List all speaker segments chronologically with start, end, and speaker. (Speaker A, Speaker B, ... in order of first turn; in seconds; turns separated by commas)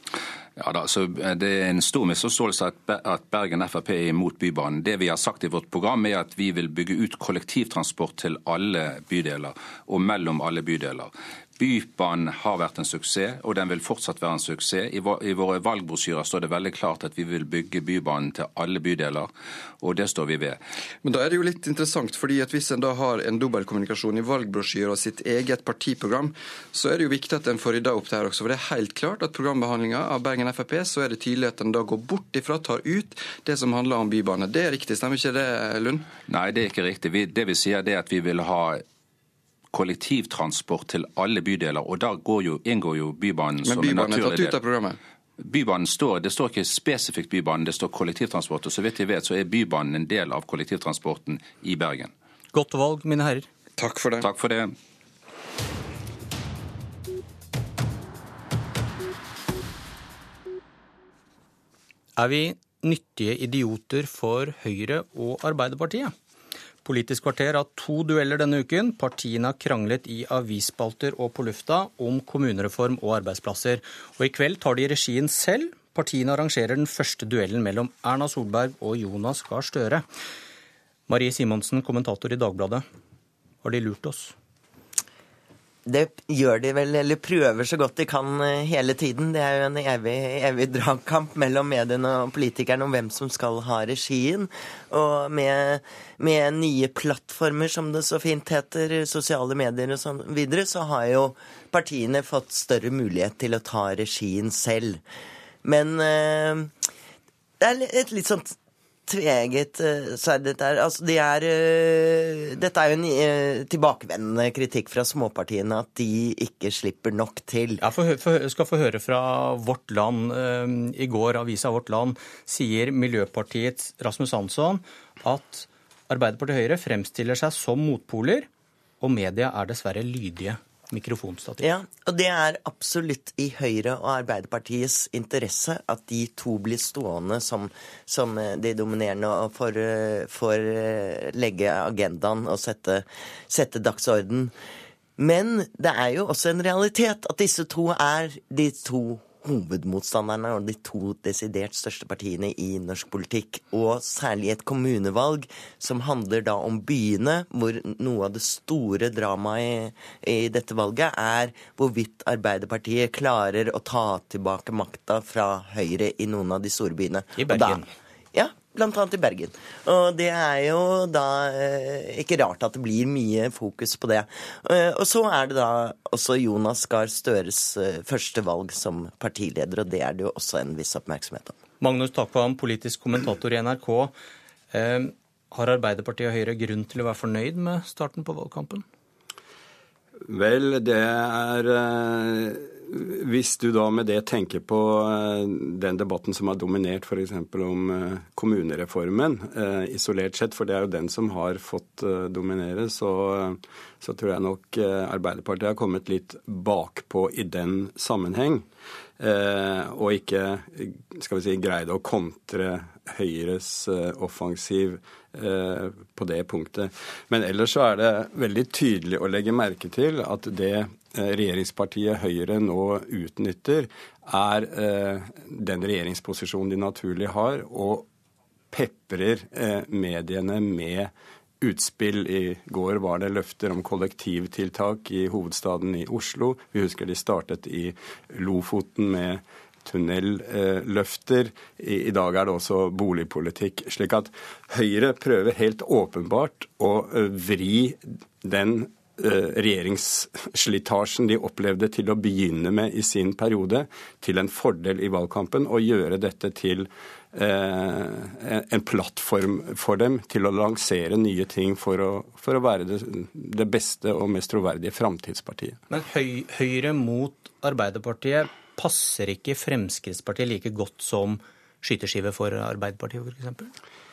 Speaker A: 0.6-19.3, Speaker A: 19.8-20.6, Speaker B: 21.0-36.0, Speaker A: 36.3-38.8, Speaker A: 39.7-44.7, Speaker B: 43.6-45.0, Speaker A: 45.4-52.1, Speaker C: 52.5-53.4, Speaker B: 53.8-54.2, Speaker A: 54.2-54.7, Speaker C: 62.2-66.1, Speaker C: 66.8-80.0, Speaker C: 81.1-82.8, Speaker C: 83.6-84.3, Speaker D: 85.9-105.0, Speaker D: 105.6-106.7, Speaker D: 107.6-108.5, Speaker D: 109.1-117.8, Speaker C: 117.8-128.5, Speaker C: 129.0-131.7, Speaker D: 131.6-144.5, Speaker D: 145.2-167.8, Speaker C: 167.4-167.9, Speaker D: 168.3-181.5, Speaker C: 181.8-184.1, Speaker C: 184.7-188.8, Speaker E: 190.3-208.6, Speaker E: 209.2-228.1, Speaker E: 228.7-265.8, Speaker C: 265.9-273.7